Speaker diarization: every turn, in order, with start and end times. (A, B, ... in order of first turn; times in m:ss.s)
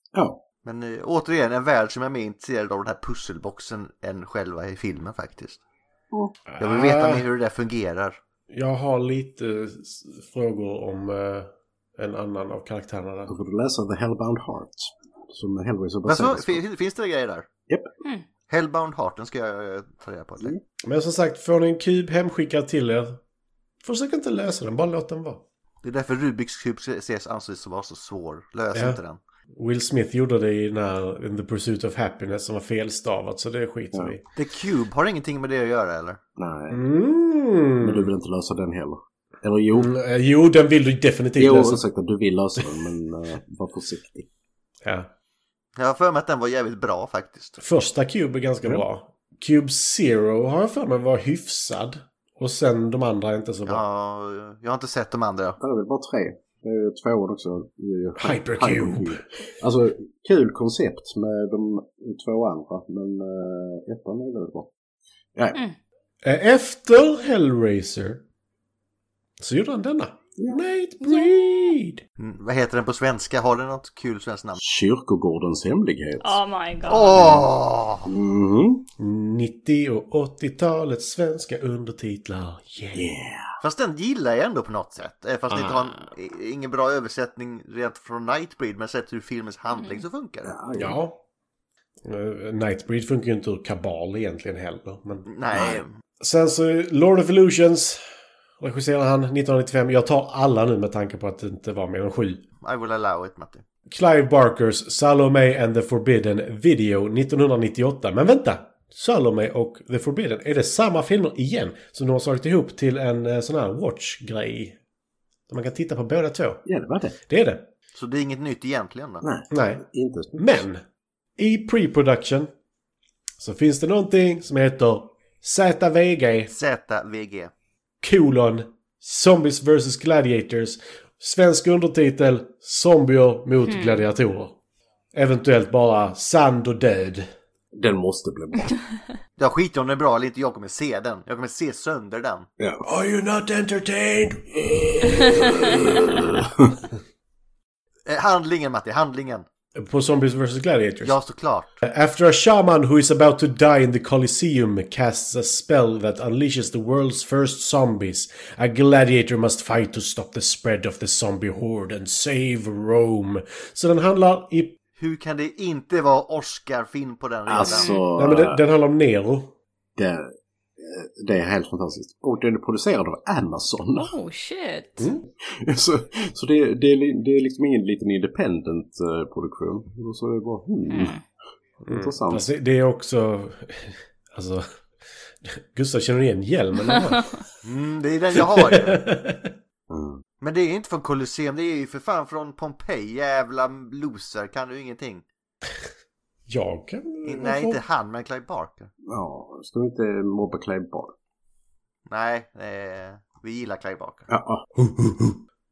0:00.1-0:00.4 A
0:00.6-0:05.6 B
0:06.5-0:07.2 C
0:06.6-0:08.2 B
0:08.5-0:13.3 C
0:13.3-0:16.6 A
0:16.0-0:17.5 B
0:18.5-0:20.6 B
0:20.8-0:23.2 C
0:23.8-0:25.4 C
0:25.8-0:29.2 B
0:28.7-0:29.0 C
0:29.5-0:34.2 C
0:34.3-0:36.2 B
0:36.4-0:36.8 A
0:36.7-0:38.1 C
0:37.8-0:39.9 A
0:39.7-0:41.8 C
0:41.4-0:44.3 A
0:45.8-0:47.6 B
0:47.6-0:53.8 C
0:53.6-0:55.6 B
0:55.6-1:04.7 A
0:58.2-0:59.2 C
1:06.2-1:08.2 C
1:09.4-1:12.0 C
1:10.4-1:10.6 A
1:11.0-1:11.8 D
1:12.2-1:14.6 B
1:14.6-1:16.4 A
1:16.2-1:17.3 D
1:16.9-1:18.1 B
1:17.1-1:17.5 A
1:18.0-1:18.8 A
1:19.0-1:23.1 C
1:22.9-1:23.6 A
1:23.6-1:30.6 B
1:25.5-1:26.1 C
1:29.7-1:30.0 D
1:30.4-1:31.0 A
1:30.7-1:31.2 C
1:32.0-1:35.3 C
1:35.3-1:35.9 B
1:35.5-1:35.8 A
1:36.2-1:38.0 C
1:38.6-1:42.4 C
1:42.6-1:43.6 B
1:43.9-1:54.8 C
1:55.5-1:56.6 C
1:56.6-1:57.2 A
1:57.3-1:57.7 C
1:57.9-1:59.2 B
1:59.2-2:00.6 A
1:59.5-1:59.8 C
2:00.4-2:00.8 C
2:01.4-2:02.5 C
2:03.4-2:06.5 C
2:06.5-2:07.5 B
2:08.0-2:14.6 C
2:13.6-2:14.0 D
2:15.1-2:17.3 C
2:17.7-2:18.8 A
2:19.4-2:22.5 B
2:22.6-2:22.9 A
2:22.8-2:26.1 C
2:25.2-2:26.8 A
2:28.1-2:29.4 B
2:29.8-2:31.2 C
2:31.0-2:31.7 B
2:31.8-2:44.7 C
2:45.0-2:48.0 B
2:47.5-2:48.6 A
2:47.6-2:48.0 D
2:48.2-2:49.5 C
2:50.0-2:54.1 A
2:54.0-2:55.1 D
2:55.4-3:01.2 A
3:00.9-3:01.2 D
3:01.9-3:04.7 C
3:01.9-3:02.5 A
3:05.4-3:07.4 C
3:07.6-3:09.0 B
3:08.4-3:09.5 C
3:09.9-3:10.2 A
3:10.4-3:15.2 B
3:16.5-3:17.8 C
3:17.2-3:18.9 B
3:19.1-3:21.1 A
3:22.1-3:24.3 B
3:24.3-3:24.6 A
3:24.8-3:25.4 C